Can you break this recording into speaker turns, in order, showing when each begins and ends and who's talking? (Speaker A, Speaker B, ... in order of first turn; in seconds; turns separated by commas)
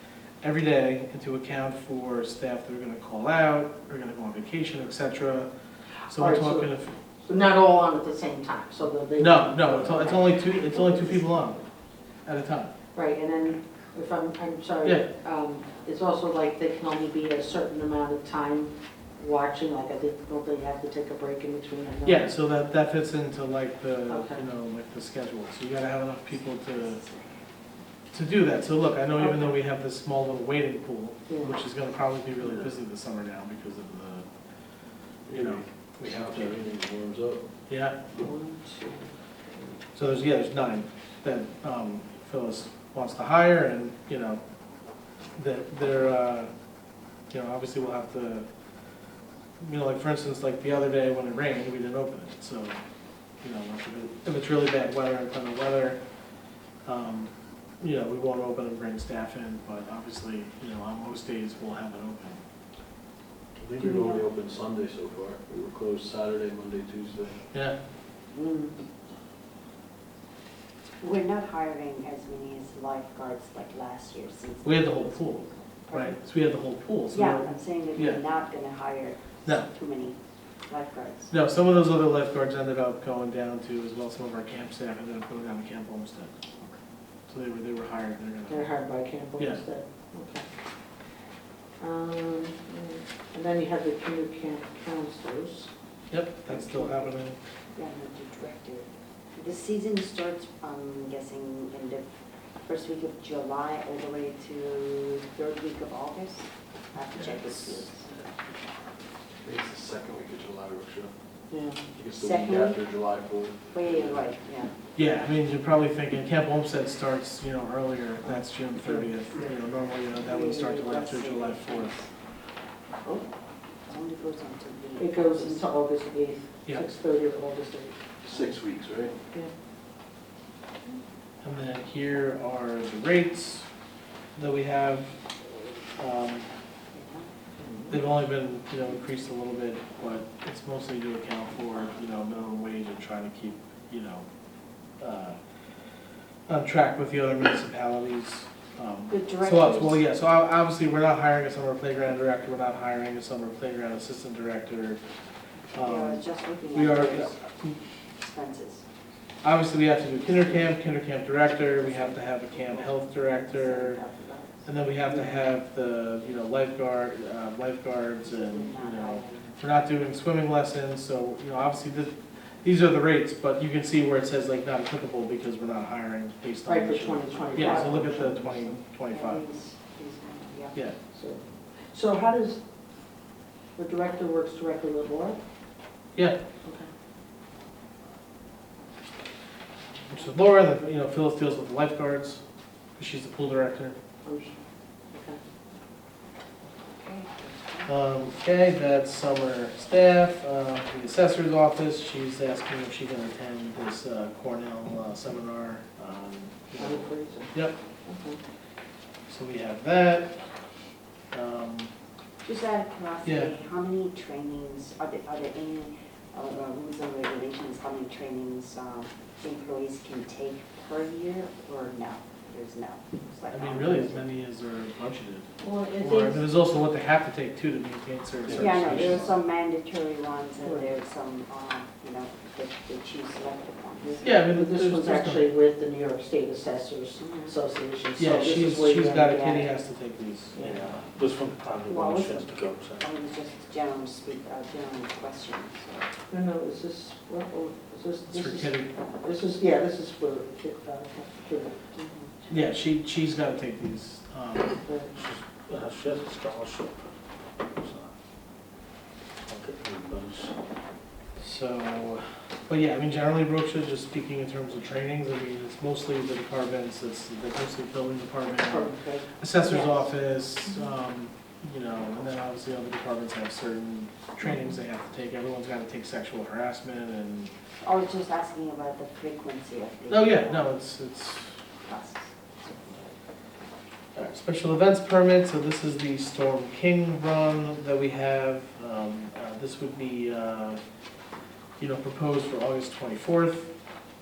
Speaker A: 0.4-5.5, Speaker A: 6.1-6.9, Speaker B: 6.1-6.7, Speaker B: 7.2-11.2, Speaker A: 9.2-11.6, Speaker A: 12.2-12.7, Speaker B: 12.9-22.3, Speaker A: 22.0-27.0, Speaker B: 24.1-24.4, Speaker C: 26.6-27.4, Speaker A: 28.1-34.3, Speaker B: 29.1-29.5, Speaker B: 31.3-31.6, Speaker D: 32.4-32.7, Speaker D: 35.3-37.5, Speaker A: 35.3-36.6, Speaker A: 37.7-38.0, Speaker B: 38.1-39.1, Speaker A: 39.9-44.4, Speaker A: 45.4-46.5, Speaker A: 47.3-48.5, Speaker A: 49.6-52.8, Speaker A: 53.4-56.0, Speaker A: 56.9-62.4, Speaker D: 63.5-67.4, Speaker C: 63.8-64.2, Speaker A: 67.5-67.8, Speaker C: 68.3-68.7, Speaker C: 71.0-76.2, Speaker A: 74.6-78.2, Speaker C: 77.1-81.3, Speaker A: 81.3-86.3, Speaker A: 87.3-88.8, Speaker B: 88.5-90.4, Speaker A: 89.4-89.6, Speaker B: 91.8-95.7, Speaker A: 96.1-97.4, Speaker B: 96.5-97.0, Speaker C: 97.7-102.1, Speaker C: 102.6-108.2, Speaker A: 107.1-107.8, Speaker D: 109.4-111.1, Speaker B: 111.5-111.8, Speaker D: 111.9-114.3, Speaker C: 112.2-112.8, Speaker C: 113.7-114.7, Speaker A: 115.0-121.9, Speaker B: 118.2-119.0, Speaker C: 120.2-122.1, Speaker C: 123.9-125.7, Speaker B: 125.0-128.1, Speaker D: 128.2-129.2, Speaker A: 131.4-133.7, Speaker A: 134.3-136.5, Speaker C: 136.9-137.3, Speaker B: 137.6-137.9, Speaker A: 137.9-144.2, Speaker A: 145.0-145.4, Speaker A: 146.5-155.0, Speaker C: 149.1-150.0, Speaker C: 155.7-157.5, Speaker A: 155.7-157.8, Speaker C: 158.2-158.8, Speaker A: 159.4-164.0, Speaker C: 161.8-163.0, Speaker B: 163.2-164.5, Speaker A: 164.6-179.4, Speaker B: 165.0-165.3, Speaker C: 168.2-169.5, Speaker B: 176.7-178.7, Speaker C: 177.5-177.9, Speaker C: 179.1-180.9, Speaker B: 181.1-182.6, Speaker B: 183.8-185.4, Speaker A: 190.1-192.4, Speaker A: 193.0-194.0, Speaker B: 194.2-194.6, Speaker B: 195.1-195.4, Speaker C: 196.8-197.9, Speaker A: 197.8-207.8, Speaker B: 206.7-208.4, Speaker A: 209.3-210.4, Speaker A: 211.3-211.9, Speaker C: 212.4-224.2, Speaker A: 213.2-213.6, Speaker A: 223.5-229.3, Speaker B: 225.6-226.4, Speaker D: 228.4-229.3, Speaker C: 228.5-234.3, Speaker B: 234.0-239.7, Speaker A: 234.2-235.4, Speaker C: 237.2-237.5, Speaker A: 238.2-241.0, Speaker B: 240.5-240.8, Speaker E: 241.0-243.0, Speaker C: 241.9-246.1, Speaker B: 246.3-251.8, Speaker A: 248.3-248.9, Speaker C: 251.9-252.3, Speaker A: 252.5-254.8, Speaker B: 254.8-255.1, Speaker D: 255.7-256.0, Speaker D: 257.8-258.1, Speaker D: 259.5-260.5, Speaker A: 261.4-277.5, Speaker B: 268.6-269.5, Speaker C: 269.6-270.1, Speaker C: 277.8-280.7, Speaker A: 280.1-281.6, Speaker C: 281.8-283.1, Speaker A: 284.1-290.8, Speaker A: 291.8-293.7